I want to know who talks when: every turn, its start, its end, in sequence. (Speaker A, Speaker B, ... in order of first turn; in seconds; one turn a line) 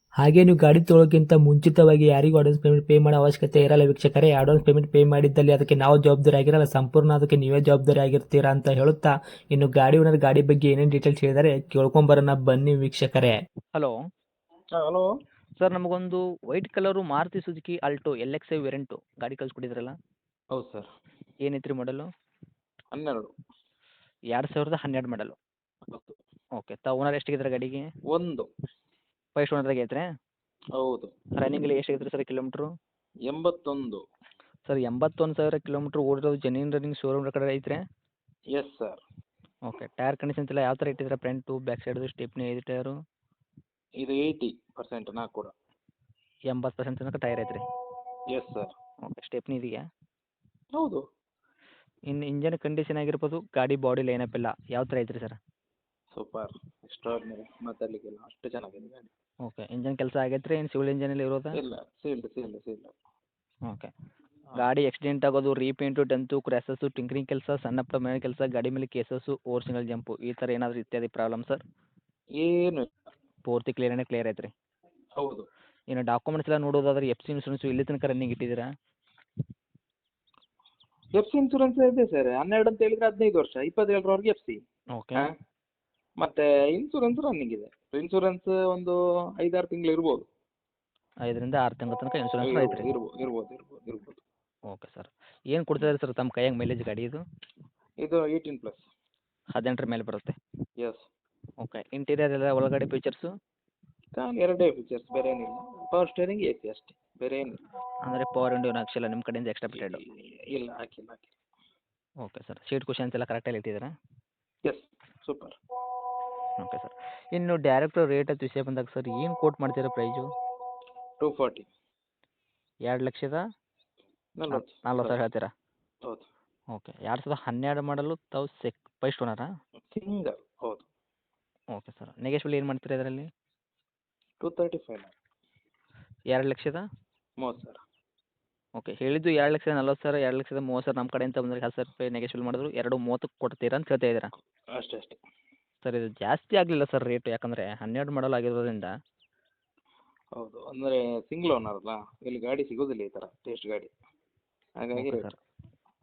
Speaker A: 0.2-13.4
Speaker B: 14.8-15.1
Speaker C: 15.6-19.9
Speaker B: 20.5-20.9
Speaker C: 21.4-22.1
Speaker B: 22.9-23.3
Speaker C: 24.3-25.4
Speaker B: 25.9-26.2
Speaker C: 26.6-27.9
Speaker B: 28.1-28.5
Speaker C: 29.4-30.1
Speaker B: 30.8-31.1
Speaker C: 31.4-32.7
Speaker B: 33.3-34.0
Speaker C: 34.7-37.8
Speaker B: 38.5-39.0
Speaker C: 39.7-43.0
Speaker B: 44.0-45.5
Speaker C: 46.5-47.6
Speaker B: 48.3-48.7
Speaker C: 49.1-49.8
Speaker B: 50.7-51.0
Speaker C: 52.1-55.4
Speaker B: 56.1-59.1
Speaker C: 59.5-61.6
Speaker B: 61.5-62.9
Speaker C: 64.5-71.6
Speaker B: 72.4-72.9
Speaker C: 73.5-74.5
Speaker B: 75.2-75.5
Speaker C: 75.9-78.7
Speaker B: 81.2-84.6
Speaker C: 85.0-85.3
Speaker B: 86.2-90.3
Speaker C: 91.3-92.9
Speaker B: 92.4-94.2
Speaker C: 94.7-97.2
Speaker B: 98.0-98.9
Speaker C: 99.5-100.4
Speaker B: 100.8-101.0
Speaker C: 101.6-103.3
Speaker B: 104.2-107.6
Speaker C: 108.0-110.0
Speaker B: 109.7-111.3
Speaker C: 112.2-113.9
Speaker B: 114.7-115.6
Speaker C: 116.6-120.3
Speaker B: 121.2-121.7
Speaker C: 122.9-123.4
Speaker B: 124.4-125.2
Speaker C: 124.5-125.5
Speaker C: 126.7-129.5
Speaker B: 129.9-130.9
Speaker C: 131.7-133.3
Speaker B: 134.4-135.1
Speaker C: 136.3-136.8
Speaker B: 137.4-137.8
Speaker C: 138.8-144.3
Speaker B: 144.7-145.2
Speaker C: 145.8-148.9
Speaker B: 150.4-153.9
Speaker B: 154.8-155.3
Speaker C: 155.0-155.4